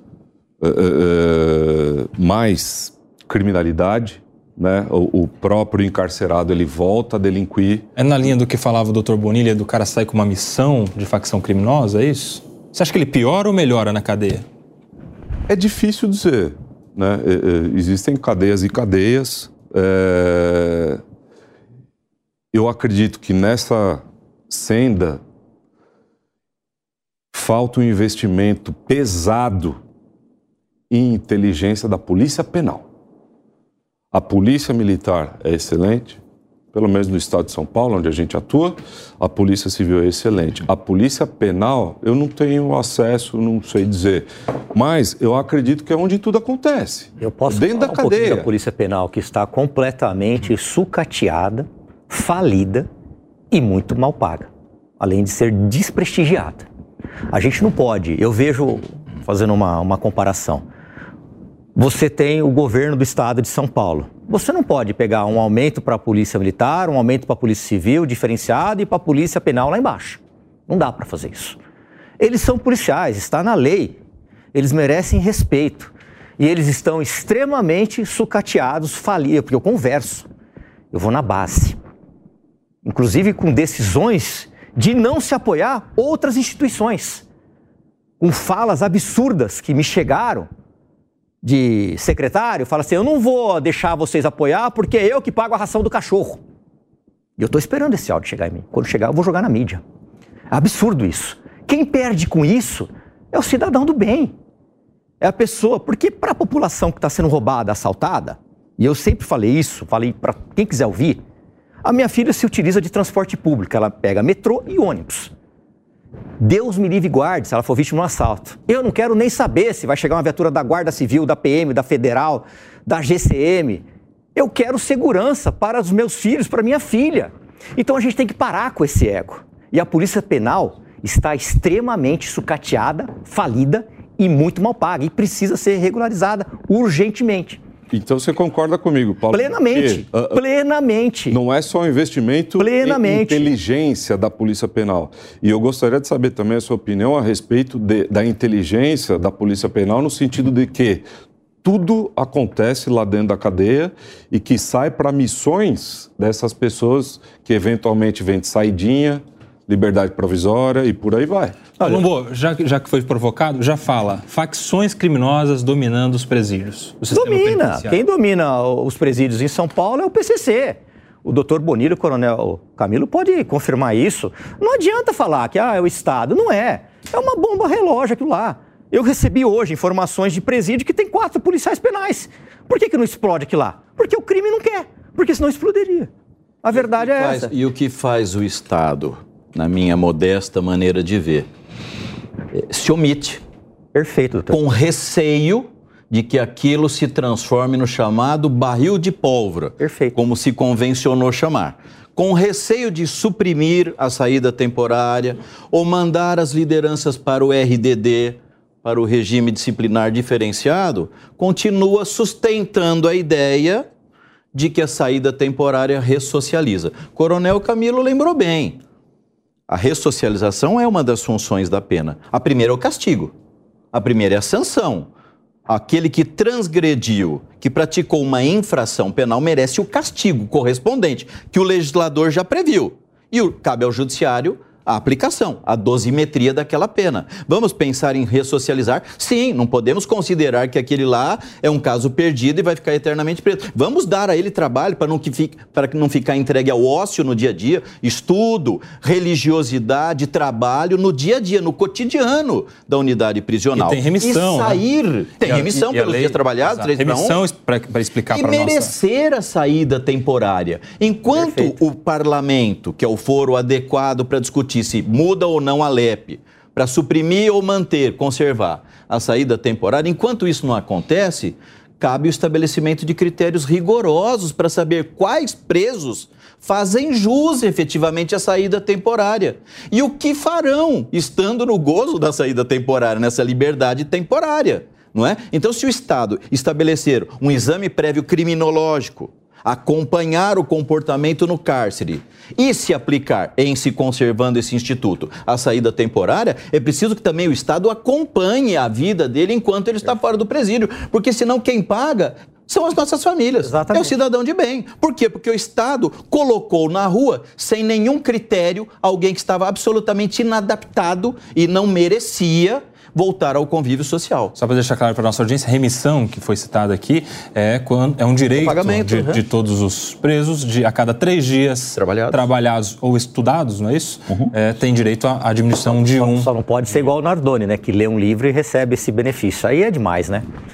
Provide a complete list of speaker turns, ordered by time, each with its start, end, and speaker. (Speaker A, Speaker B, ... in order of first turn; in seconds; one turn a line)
Speaker A: 0.6-7.8
Speaker B: 8.0-14.4
Speaker A: 15.5-21.0
Speaker A: 22.5-25.2
Speaker A: 27.3-29.8
Speaker A: 30.9-32.9
Speaker A: 34.1-36.2
Speaker A: 36.7-48.5
Speaker C: 47.2-52.9
Speaker C: 53.5-56.6
Speaker C: 57.3-60.6
Speaker C: 61.8-71.6
Speaker C: 72.2-74.0
Speaker C: 74.5-80.3
Speaker C: 80.9-81.8
Speaker C: 82.8-87.2
Speaker C: 88.2-90.5
Speaker C: 91.4-96.4
Speaker C: 97.4-99.8
Speaker C: 100.5-104.3
Speaker C: 105.2-111.2
Speaker C: 111.8-115.3
Speaker C: 116.4-123.8
Speaker C: 124.3-137.6
Speaker A: 137.9-140.4
Speaker C: 139.3-141.4
Speaker A: 141.3-151.0
Speaker C: 142.6-143.4
Speaker A: 151.6-161.7
Speaker B: 161.8-168.0
Speaker C: 167.1-186.1
Speaker C: 186.6-187.5
Speaker D: 186.7-191.5
Speaker D: 192.5-193.4
Speaker C: 193.9-194.7
Speaker D: 194.5-213.9
Speaker C: 199.8-200.2
Speaker D: 214.5-218.8
Speaker D: 219.7-223.3
Speaker D: 223.9-225.1
Speaker D: 225.7-257.4
Speaker B: 253.7-254.8
Speaker B: 255.4-258.9
Speaker D: 258.3-314.5
Speaker C: 261.3-261.8
Speaker C: 303.6-304.2
Speaker B: 314.5-326.5
Speaker D: 318.6-319.4
Speaker D: 321.9-322.4
Speaker C: 325.9-330.4